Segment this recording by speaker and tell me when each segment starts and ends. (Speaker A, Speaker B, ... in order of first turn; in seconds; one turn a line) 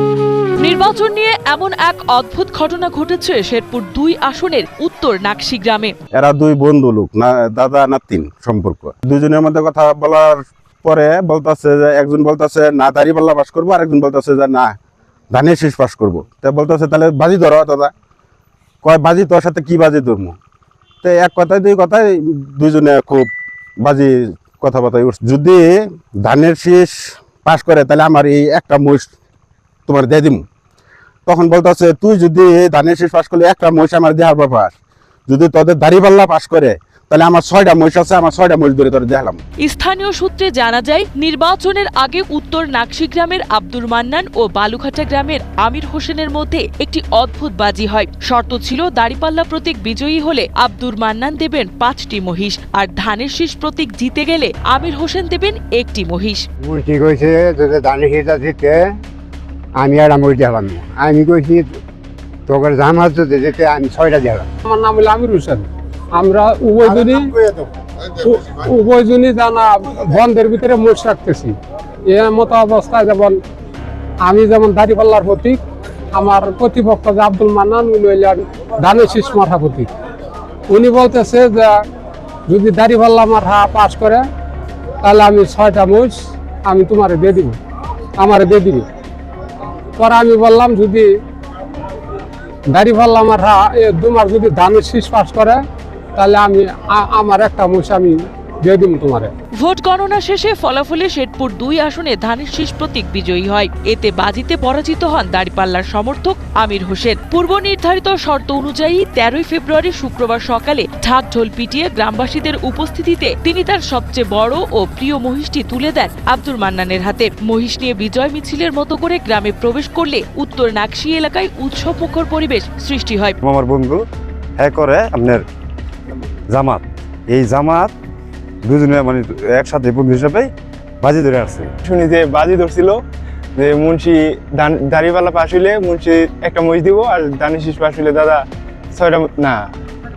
Speaker A: 0.6-5.9
Speaker B: 6.1-14.7
Speaker B: 15.3-17.9
Speaker B: 18.8-20.4
Speaker B: 21.0-29.1
Speaker B: 29.9-30.4
Speaker B: 31.2-34.7
Speaker B: 35.3-39.4
Speaker A: 39.6-56.4
Speaker C: 56.6-58.8
Speaker C: 59.8-61.7
Speaker C: 62.5-64.5
Speaker D: 64.7-65.7
Speaker D: 66.2-67.3
Speaker D: 68.2-71.5
Speaker D: 72.1-73.4
Speaker D: 74.2-75.6
Speaker D: 76.1-79.9
Speaker D: 80.7-81.7
Speaker D: 82.5-84.2
Speaker D: 85.0-87.5
Speaker D: 88.2-88.8
Speaker D: 90.0-91.1
Speaker D: 92.7-95.6
Speaker D: 96.2-99.3
Speaker A: 99.6-123.3
Speaker E: 123.4-124.0
Speaker E: 124.6-125.4
Speaker E: 126.5-127.9
Speaker E: 128.6-130.5
Speaker E: 131.0-131.7
Speaker F: 131.8-133.0
Speaker F: 133.6-139.7